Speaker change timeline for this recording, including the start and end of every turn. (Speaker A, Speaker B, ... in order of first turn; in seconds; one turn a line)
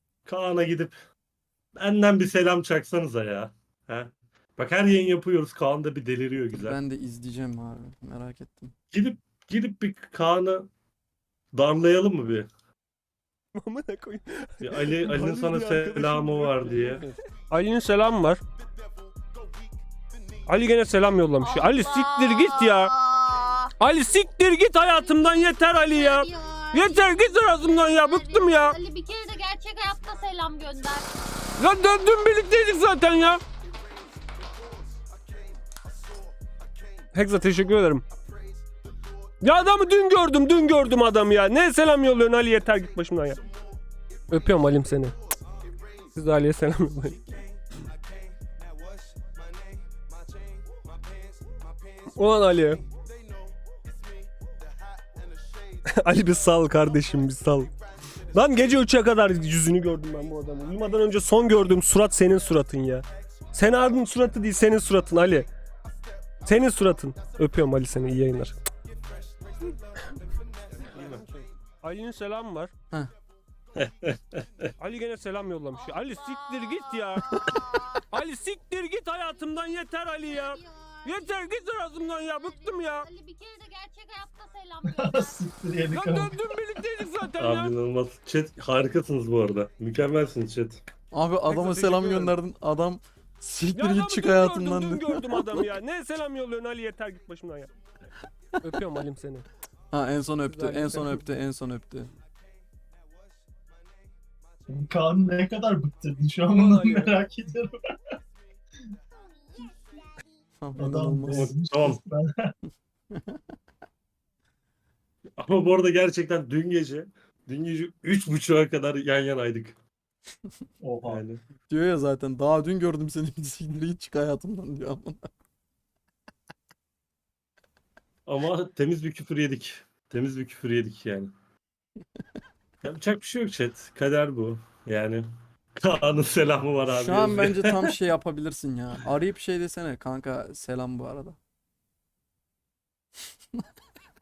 Speaker A: 0.2-0.9
Speaker A: 1.8-6.8
Speaker B: 6.5-8.7
Speaker A: 8.9-10.7
Speaker A: 11.5-12.5
Speaker C: 13.5-18.4
Speaker A: 14.6-17.0
Speaker C: 20.4-22.9
Speaker D: 21.4-23.7
Speaker C: 23.8-28.8
Speaker D: 24.8-31.1
Speaker C: 31.6-33.4
Speaker C: 37.1-38.0
Speaker C: 39.4-43.4
Speaker C: 44.3-45.1
Speaker C: 46.1-47.2
Speaker C: 52.1-52.8
Speaker C: 55.9-57.7
Speaker C: 58.3-65.5
Speaker C: 66.4-68.6
Speaker A: 70.9-71.3
Speaker C: 71.8-72.7
Speaker A: 73.8-74.7
Speaker C: 74.8-83.1
Speaker D: 75.7-78.0
Speaker D: 80.2-81.5
Speaker D: 82.1-85.4
Speaker E: 84.8-86.5
Speaker C: 85.9-87.7
Speaker A: 87.4-90.8
Speaker B: 91.1-95.7
Speaker C: 91.5-92.4
Speaker C: 93.7-97.7
Speaker C: 98.6-99.5
Speaker B: 99.9-102.1
Speaker C: 100.4-101.3
Speaker E: 104.7-107.7
Speaker C: 106.5-107.1
Speaker B: 110.6-111.5
Speaker E: 110.8-112.5
Speaker A: 111.3-112.0
Speaker B: 113.1-113.4
Speaker A: 115.4-119.8
Speaker E: 120.8-121.2
Speaker A: 121.0-121.4
Speaker B: 121.7-125.2
Speaker A: 128.2-131.3
Speaker A: 132.8-137.9
Speaker B: 136.9-141.4